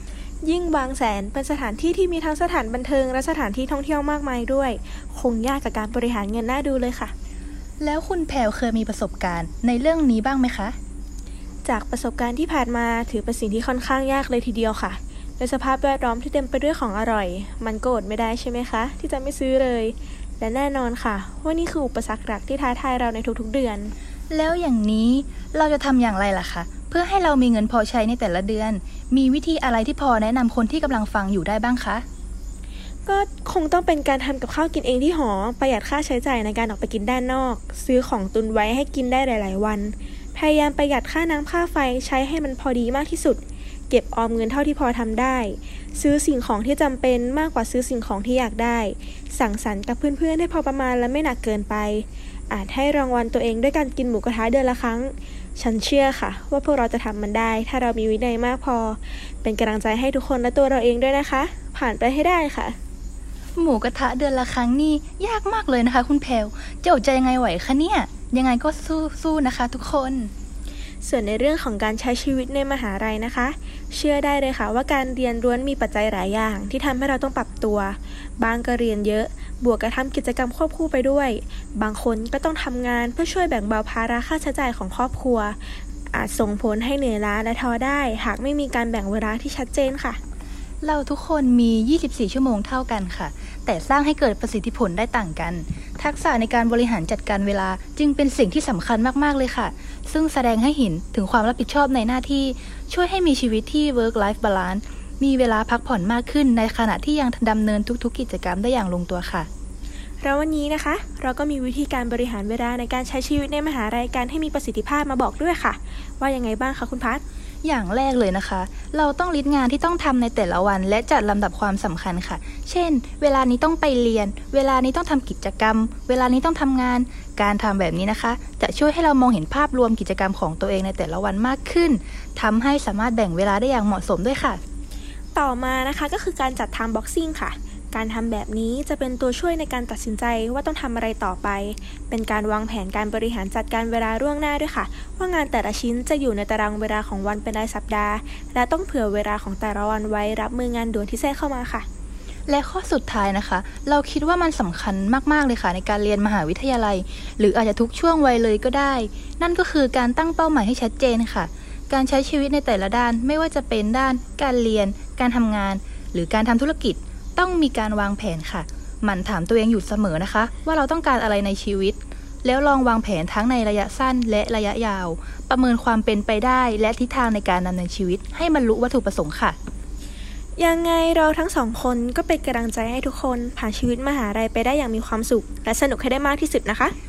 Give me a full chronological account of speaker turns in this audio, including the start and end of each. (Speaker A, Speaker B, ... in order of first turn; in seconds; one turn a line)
Speaker A: 0.4-7.1
Speaker B: 7.8-10.7
Speaker A: 11.7-23.9
Speaker B: 24.3-32.0
Speaker A: 33.1-62.8
Speaker B: 63.6-70.3
Speaker A: 71.0-85.6
Speaker A: 86.1-90.2
Speaker B: 90.8-109.5
Speaker A: 110.2-117.2
Speaker B: 117.6-134.6
Speaker A: 135.3-151.8
Speaker B: 152.5-179.6
Speaker A: 180.6-186.9